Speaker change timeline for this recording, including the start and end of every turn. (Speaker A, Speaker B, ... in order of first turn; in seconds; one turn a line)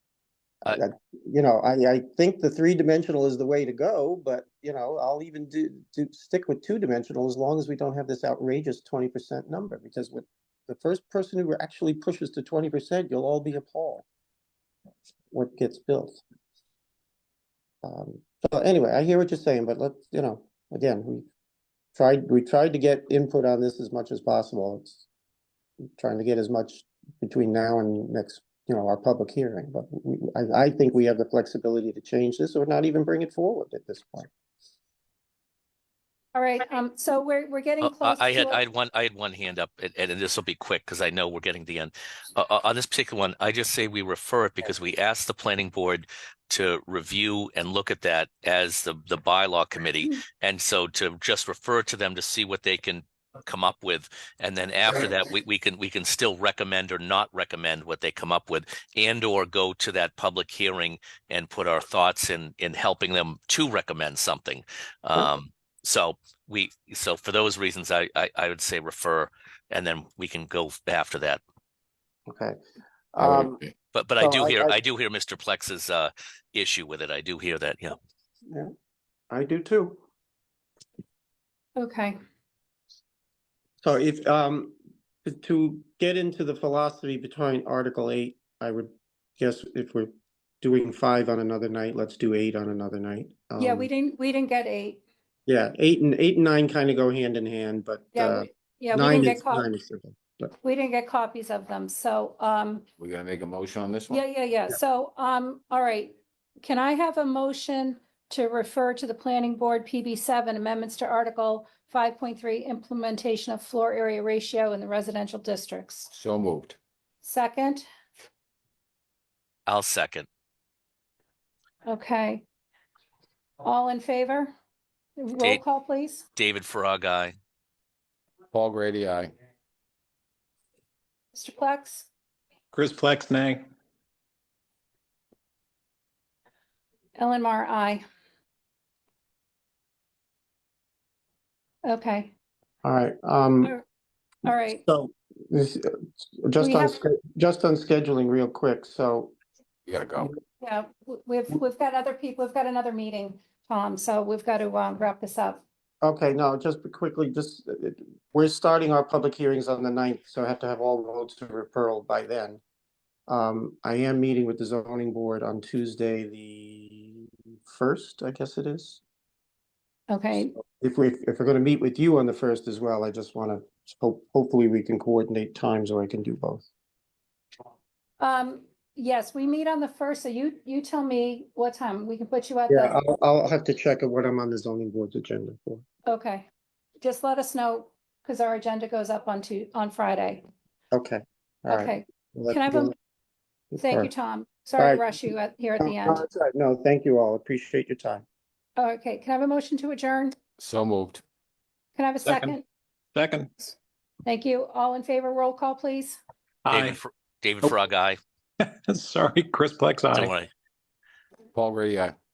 Speaker A: 0.7-14.1
Speaker A: 15.3-16.2
Speaker A: 17.8-21.3
Speaker A: 21.9-25.1
Speaker A: 26.0-34.3
Speaker B: 36.3-38.6
Speaker C: 37.8-71.4
Speaker A: 72.3-72.6
Speaker A: 73.1-73.6
Speaker D: 73.2-73.7
Speaker C: 73.9-78.0
Speaker A: 74.2-74.8
Speaker A: 79.3-80.0
Speaker B: 81.8-82.2
Speaker A: 83.8-93.9
Speaker B: 93.6-95.0
Speaker A: 95.5-100.5
Speaker B: 98.1-99.7
Speaker B: 100.6-102.9
Speaker D: 103.0-104.2
Speaker B: 104.1-116.1
Speaker D: 116.1-116.8
Speaker B: 117.2-117.9
Speaker C: 119.7-120.3
Speaker B: 121.9-122.5
Speaker B: 123.6-124.5
Speaker B: 125.2-126.2
Speaker C: 126.4-127.3
Speaker D: 128.5-129.3
Speaker B: 131.3-132.1
Speaker E: 132.7-133.7
Speaker B: 137.2-138.0
Speaker B: 141.8-142.3
Speaker A: 142.8-143.8
Speaker B: 144.4-144.8
Speaker A: 144.8-149.3
Speaker B: 146.6-147.0
Speaker D: 149.9-150.3
Speaker B: 150.6-155.6
Speaker A: 156.0-162.6
Speaker A: 163.3-169.0
Speaker B: 170.1-170.6
Speaker A: 170.3-176.7
Speaker B: 178.2-183.0
Speaker A: 182.7-185.8
Speaker B: 186.1-186.5
Speaker B: 187.0-190.5
Speaker A: 190.9-192.9
Speaker B: 191.7-192.9
Speaker A: 193.7-194.1
Speaker B: 193.8-196.2
Speaker A: 194.8-195.3
Speaker A: 195.8-198.2
Speaker B: 198.8-200.3
Speaker D: 200.6-201.2
Speaker B: 202.0-202.6
Speaker E: 202.2-202.6
Speaker E: 203.2-203.7
Speaker B: 204.2-206.2
Speaker E: 206.7-207.0
Speaker C: 206.7-208.2
Speaker E: 208.6-210.3
Speaker C: 210.1-210.5
Speaker D: 211.5-212.1